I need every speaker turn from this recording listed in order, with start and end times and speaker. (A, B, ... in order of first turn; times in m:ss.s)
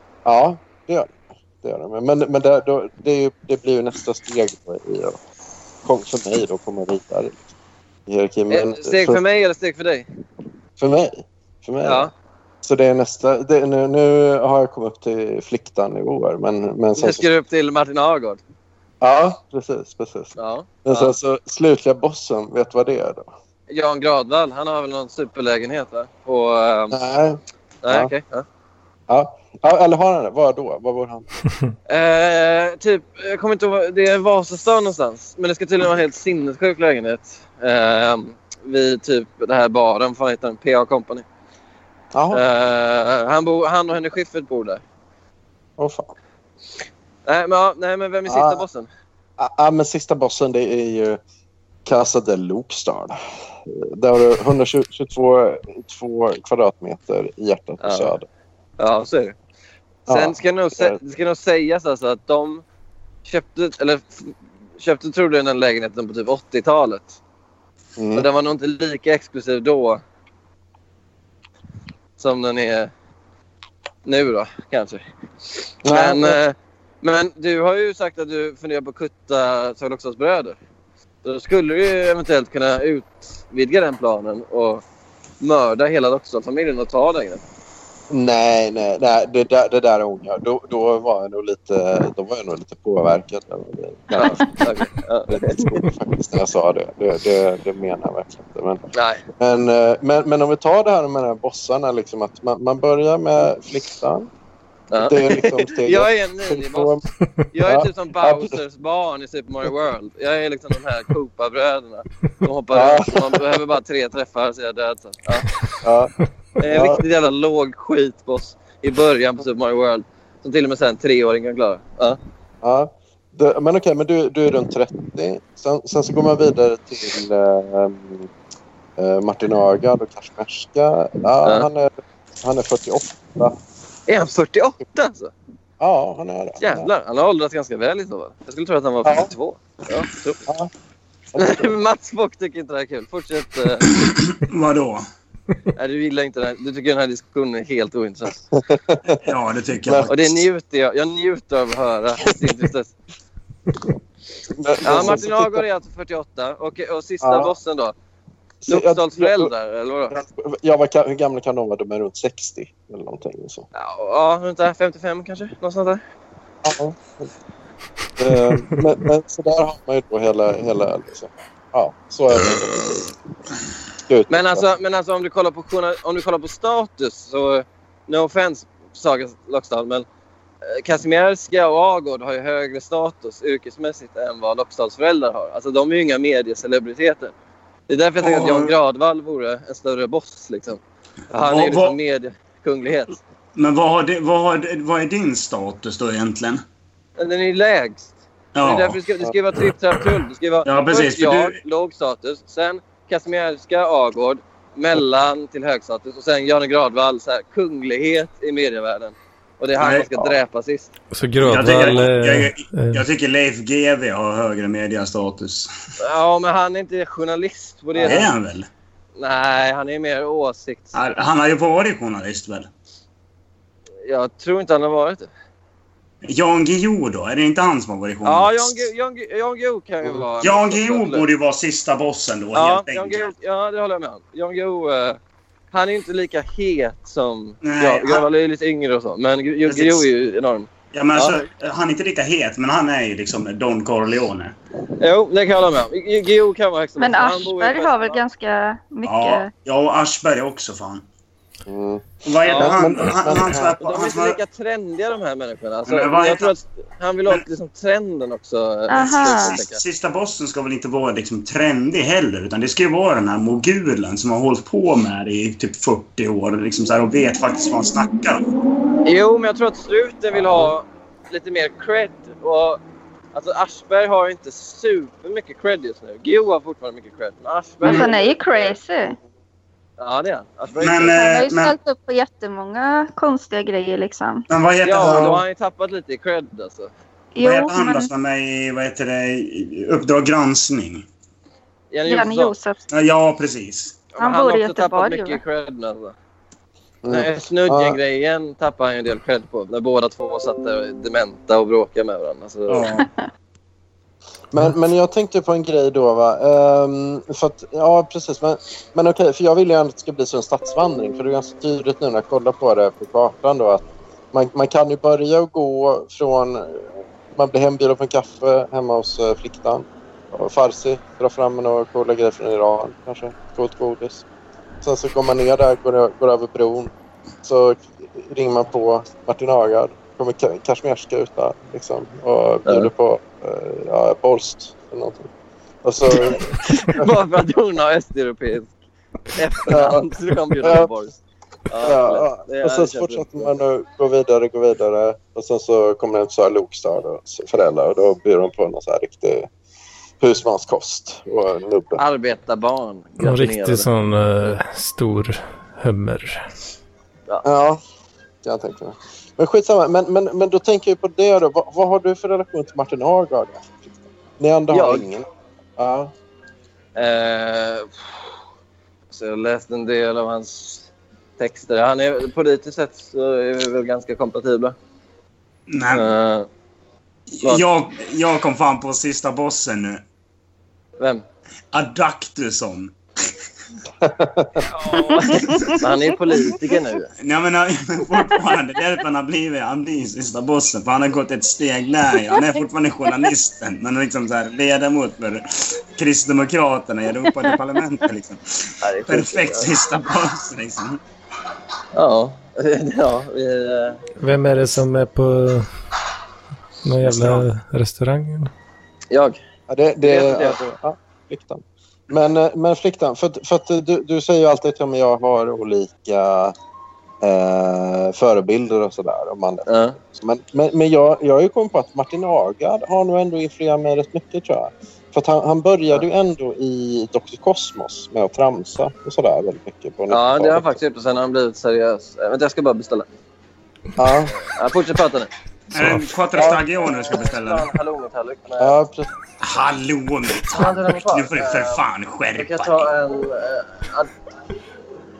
0:00.2-0:05.2 A
0:05.8-0:07.5 A
0:08.1-0:09.2 A
0:08.5-0:10.1 B
0:10.8-0:12.1 A
0:11.8-0:12.1 B
0:12.6-0:17.3 A
0:17.0-0:18.4 B
0:19.0-0:23.3 A
0:20.4-0:21.2 B
0:23.7-0:27.0 B
0:26.9-0:28.1 A
0:27.8-0:28.4 B
0:29.1-0:31.2 A
0:31.9-0:41.2 B
0:42.1-0:42.4 A
0:42.3-0:44.8 B
0:45.8-0:46.1 A
0:47.2-0:48.9 B
0:48.2-0:48.6 A
0:49.4-0:51.2 A
0:51.8-0:58.2 A
0:57.8-0:58.1 B
0:58.8-0:59.4 B
1:00.1-1:01.0 A
1:00.1-1:02.6 B
1:03.2-1:07.2 B
1:08.0-1:08.3 A
1:08.1-1:10.0 B
1:12.2-1:12.9 B
1:14.0-1:20.6 B
1:15.8-1:16.4 A
1:21.2-1:24.8 B
1:25.4-1:27.4 B
1:28.1-1:34.7 A
1:34.1-1:35.8 B
1:35.3-1:44.3 A
1:38.9-1:39.2 B
1:44.9-1:47.0 B
1:44.9-1:47.0 A
1:47.5-1:55.5 B
1:47.6-1:48.6 A
1:52.7-1:53.6 A
1:55.8-1:56.1 A
1:56.6-2:02.2 B
1:56.6-1:57.0 A
2:02.6-2:08.3 A
2:09.0-2:11.9 A
2:12.4-2:13.6 A
2:14.1-2:15.3 B
2:15.8-2:16.9 A
2:16.6-2:20.4 B
2:19.0-2:19.3 A
2:21.3-2:21.7 A
2:21.4-2:23.9 B
2:23.9-2:25.0 C
2:25.8-2:28.4 B
2:28.5-2:29.2 A
2:29.1-2:30.4 C
2:29.8-2:30.1 A
2:30.1-2:32.9 B
2:34.5-2:35.6 A
2:34.8-2:37.9 B
2:37.2-2:37.6 A
2:38.6-2:39.5 A
2:38.7-2:40.1 B
2:40.1-2:43.7 A
2:43.7-2:46.0 B
2:46.6-2:47.3 A
2:48.2-2:53.1 A
2:54.0-2:54.7 A
2:54.3-3:00.0 B
3:00.6-3:07.3 B
3:07.9-3:13.2 B
3:08.2-3:08.7 C
3:11.4-3:12.0 C
3:13.5-3:16.6 C
3:17.2-3:30.9 B
3:18.5-3:19.0 C
3:20.6-3:21.6 C
3:29.8-3:30.1 C
3:31.1-3:33.0 D
3:31.4-3:35.7 C
3:36.0-3:38.3 B
3:38.0-3:38.7 C
3:39.2-3:41.0 B
3:40.9-3:42.7 C
3:44.0-3:45.3 B
3:46.2-3:48.9 C
3:48.2-3:51.2 B
3:50.4-3:53.3 C
3:52.5-3:55.2 B
3:55.7-4:01.4 B
3:57.6-3:58.2 C
3:59.6-4:00.0 C
4:00.9-4:04.5 C
4:05.0-4:08.2 B
4:07.0-4:09.5 E
4:09.0-4:11.0 C
4:11.6-4:13.8 A
4:12.2-4:14.4 C
4:12.4-4:12.9 B
4:13.8-4:19.8 B
4:15.8-4:16.5 C
4:18.9-4:19.6 E
4:18.9-4:28.4 C
4:29.0-4:32.8 B
4:33.3-4:38.7 B
4:37.8-4:39.2 E
4:40.0-4:41.2 B
4:40.8-4:41.7 C
4:41.1-4:44.4 E
4:44.5-4:45.4 C
4:44.8-4:46.9 B
4:45.0-4:45.4 A
4:47.3-4:48.1 E
4:47.4-4:51.0 C
4:51.9-4:52.5 B
4:52.1-4:52.8 E
4:52.9-4:54.0 C
4:54.1-4:56.1 B
4:54.2-4:55.4 E
4:57.0-4:58.0 A
4:57.0-5:02.9 B
5:02.7-5:03.0 C
5:04.5-5:24.2 A
5:24.8-5:35.3 A
5:35.8-5:37.1 A
5:36.2-5:38.7 B
5:39.3-5:41.2 B
5:39.7-5:40.0 A
5:40.6-5:40.9 A
5:41.7-5:43.5 B
5:41.8-5:49.5 A
5:50.2-5:52.0 A
5:52.0-5:53.9 B
5:53.2-5:56.4 D
5:57.4-5:57.8 A
5:58.4-6:05.2 A
6:04.7-6:05.1 B
6:05.8-6:06.1 A
6:06.9-6:08.3 B
6:09.1-6:14.8 B
6:15.7-6:16.1 C
6:15.9-6:16.5 B
6:17.3-6:20.0 C
6:21.0-6:21.2 B
6:21.7-6:22.9 C
6:24.0-6:24.7 A
6:24.6-6:27.1 B
6:25.2-6:25.7 E
6:25.4-6:25.7 C
6:27.2-6:41.0 C
6:38.8-6:39.7 B
6:41.9-6:44.0 B
6:44.2-6:45.7 D
6:46.8-6:48.5 D
6:47.0-6:47.5 C
6:49.1-6:49.4 B
6:49.7-6:56.5 A
6:50.0-6:50.6 B
6:57.2-7:10.8 A
6:59.6-7:00.0 B
7:10.1-7:13.1 B
7:14.0-7:14.4 A
7:14.3-7:15.3 B
7:15.7-7:17.7 C
7:16.3-7:18.8 B
7:18.6-7:19.1 A
7:19.4-7:22.9 C
7:20.5-7:24.1 B